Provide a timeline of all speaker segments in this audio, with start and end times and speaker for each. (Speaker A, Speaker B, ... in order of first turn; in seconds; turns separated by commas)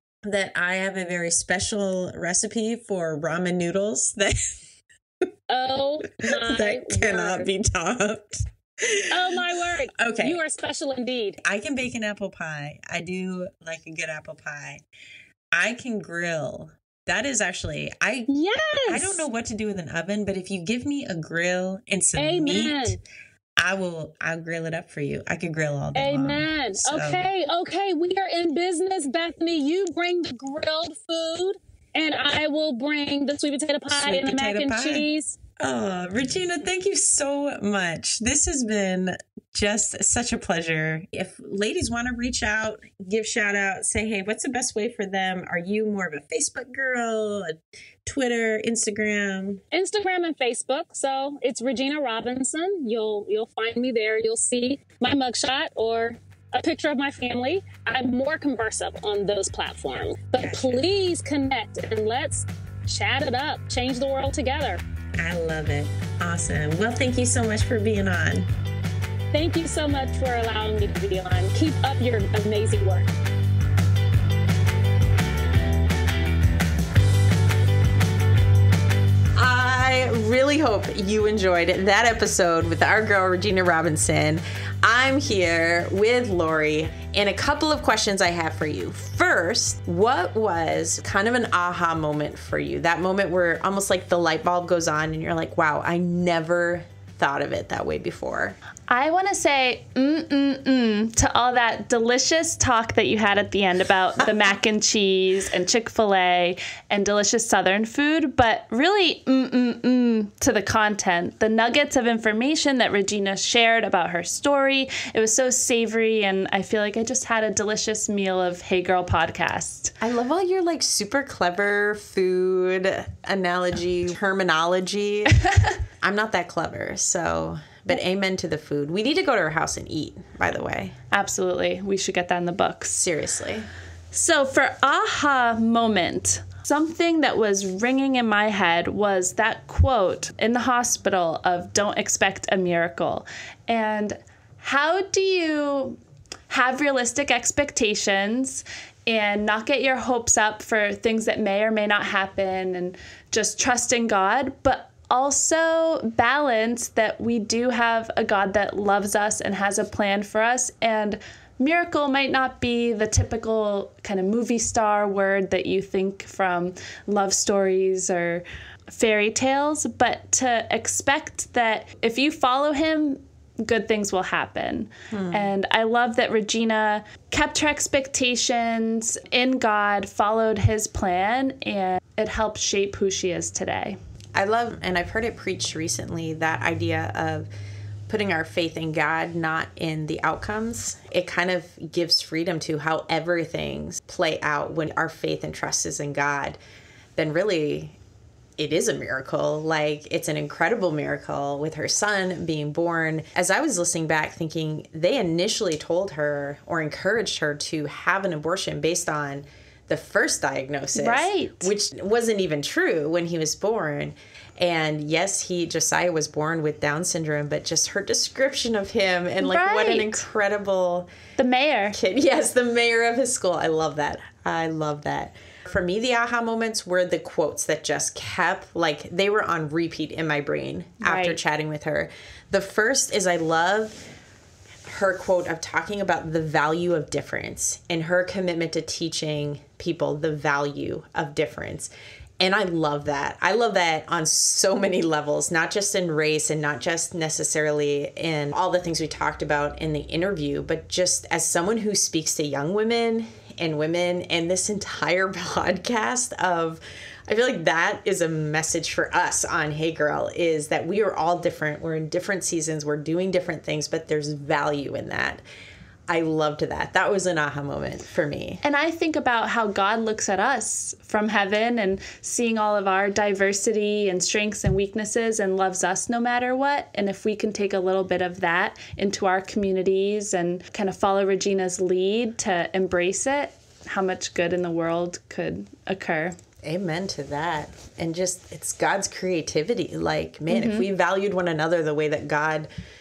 Speaker A: 0.2-4.6, Speaker B: 5.5-7.5, Speaker A: 6.2-10.4, Speaker B: 9.1-11.4, Speaker A: 11.4-14.8, Speaker A: 15.5-18.3, Speaker B: 18.3-19.2, Speaker A: 18.9-23.0, Speaker B: 22.2-23.0, Speaker A: 23.6-27.3, Speaker B: 25.9-35.4, Speaker A: 33.9-35.1, Speaker A: 35.6-49.6, Speaker B: 49.7-64.8, Speaker A: 60.4-60.8, Speaker A: 65.2-68.5, Speaker B: 69.3-73.1, Speaker A: 79.4-98.6, Speaker C: 98.9-120.0, Speaker A: 120.0-125.5, Speaker A: 126.0-130.9, Speaker C: 131.1-133.0, Speaker A: 133.0-133.7, Speaker C: 134.1-184.0, Speaker A: 175.1-175.5, Speaker A: 184.3-187.5, Speaker A: 188.1-196.6, Speaker A: 197.2-198.0, Speaker A: 198.6-221.1, Speaker C: 211.0-211.7, Speaker C: 219.4-220.2, Speaker C: 221.4-222.0, Speaker A: 221.9-234.1, Speaker C: 231.0-231.4, Speaker A: 234.8-265.4, Speaker A: 266.1-268.6, Speaker C: 268.6-286.4, Speaker A: 286.6-292.7, Speaker C: 290.5-290.9